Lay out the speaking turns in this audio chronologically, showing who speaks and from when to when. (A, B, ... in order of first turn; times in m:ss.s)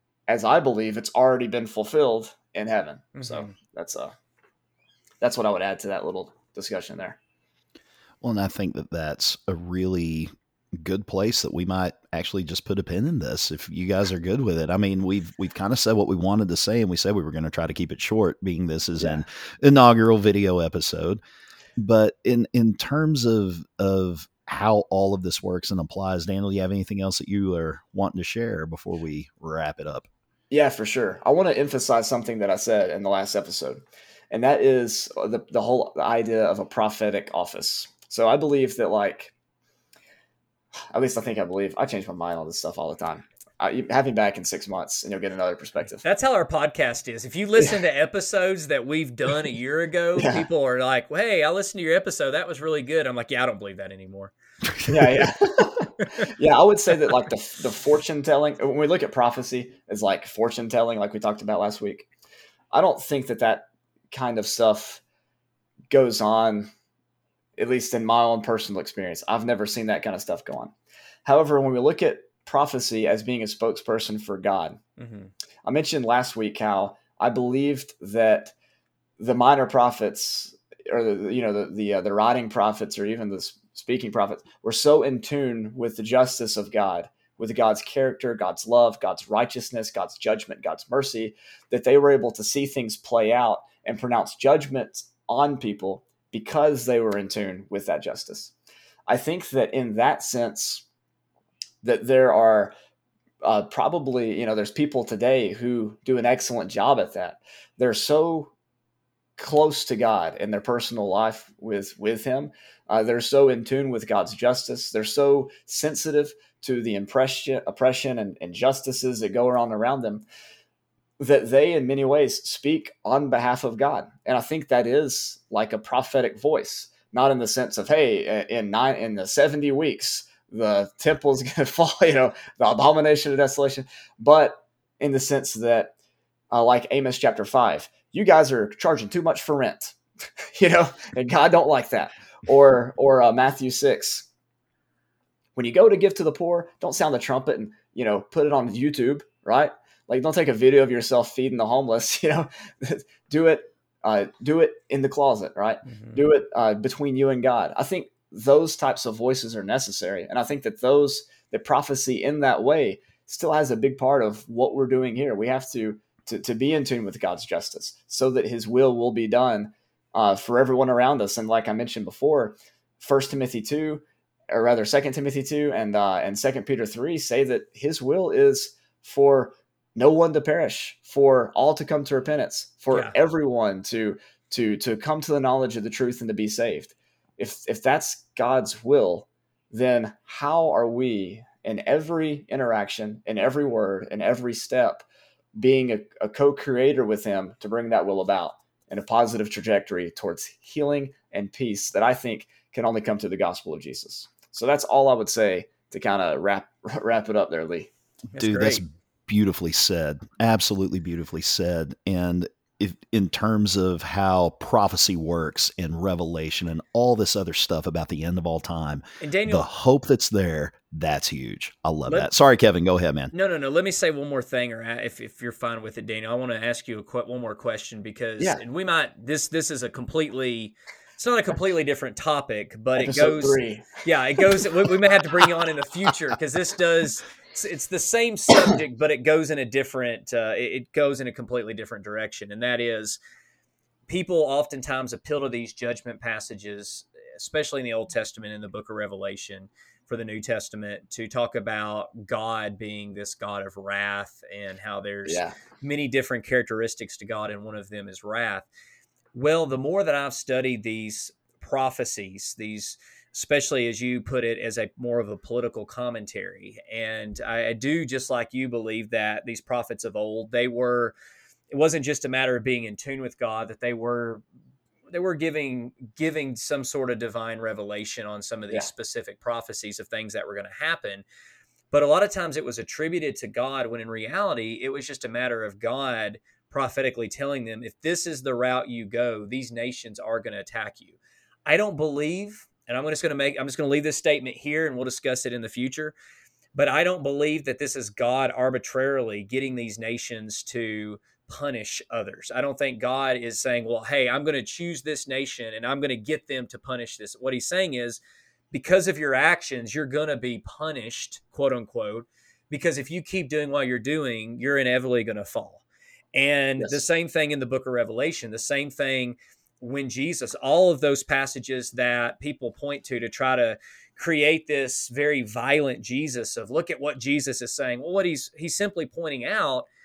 0:00.3-0:04.1 A
0:03.2-0:03.5 B
0:05.2-0:07.2 A
0:08.2-0:21.2 C
0:21.8-0:30.1 C
0:30.5-0:39.3 A
0:40.9-0:46.0 A
0:46.0-0:54.3 B
0:50.2-0:50.5 A
0:54.9-1:02.1 A
1:02.7-1:05.0 A
1:05.9-1:06.7 A
1:07.6-1:10.7 A
1:11.2-1:14.8 A
1:15.0-1:15.3 B
1:15.6-1:18.5 A
1:19.2-1:38.5 A
1:39.1-1:40.8 A
1:41.8-1:42.7 A
1:43.4-1:48.5 A
1:49.4-2:00.3 A
2:01.2-2:15.9 A
2:16.5-2:20.0 A
2:20.6-2:24.3 A
2:25.6-3:27.9 A
2:35.9-2:36.2 B
3:28.3-3:28.8 B
3:28.4-3:43.3 C
3:39.2-3:39.7 B
3:43.3-4:03.2 B
3:53.0-3:54.7 A
4:04.1-4:18.7 B
4:15.2-4:15.6 A
4:19.3-4:31.1 B
4:31.7-4:34.4 B
4:35.1-4:41.2 B
4:41.9-4:56.2 B
4:56.7-5:08.2 B
5:08.7-5:29.9 B